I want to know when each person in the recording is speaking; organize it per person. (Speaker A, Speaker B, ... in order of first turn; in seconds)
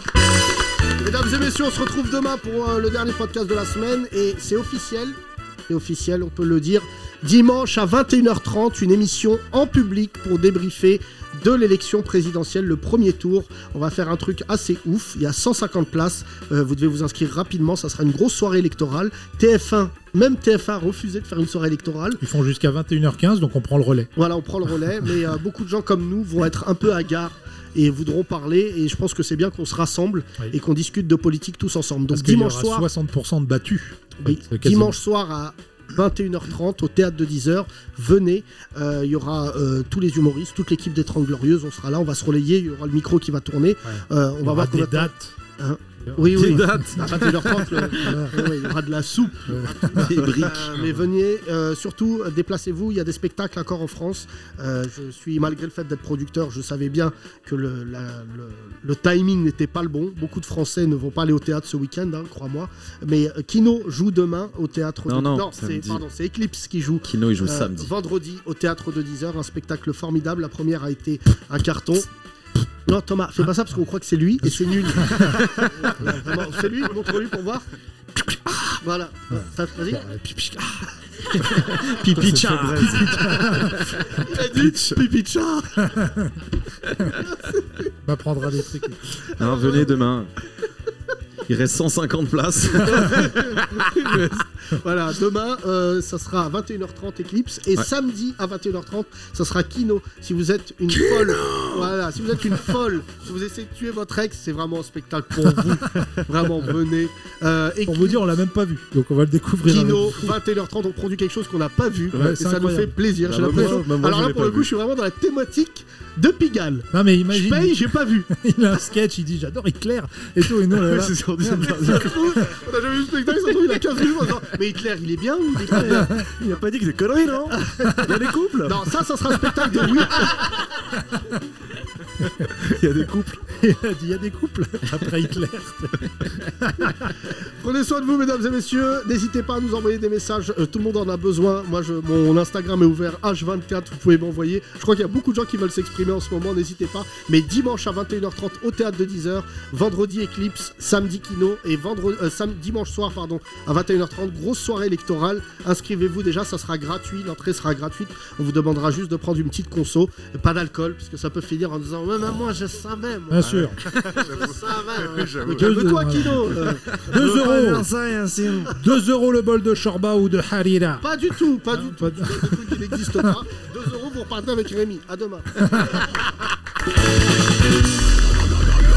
Speaker A: 1.0-22.2, 24.1-32.9, 34.2-72.1, 72.8-77.7, 78.8-80.0, 84.1-86.0, 87.2-87.9, 89.4-89.9, 92.9-93.6, 94.7-108.2, 109.7-118.3, 121.8-126.2, 127.5-128.1, 128.6-130.5, 137.4-163.6, 164.2-167.5, 171.0-176.1
Speaker B: 22.2-24.1, 32.1-35.0, 43.9-45.3, 46.0-46.9, 48.0-48.5, 49.5-50.3, 75.0-75.4, 79.3-80.9, 82.0-82.3, 83.0-83.9, 85.9-86.3, 88.0-89.0, 107.8-110.3, 112.1-112.9, 116.9-122.0, 125.9-126.3, 133.5-137.1, 163.3-163.8, 165.5-167.9, 168.7-171.0, 171.7-172.6, 175.6-176.0
Speaker C: 46.3-48.0, 50.0-50.9, 65.1-65.5, 67.0-67.9, 81.7-83.8, 89.3-90.3, 91.5-94.3, 101.0-101.7
Speaker D: 65.5-66.0, 82.2-83.8, 113.2-114.7, 120.8-122.4, 125.7-128.8, 132.8-133.4, 163.4-165.7, 167.1-168.8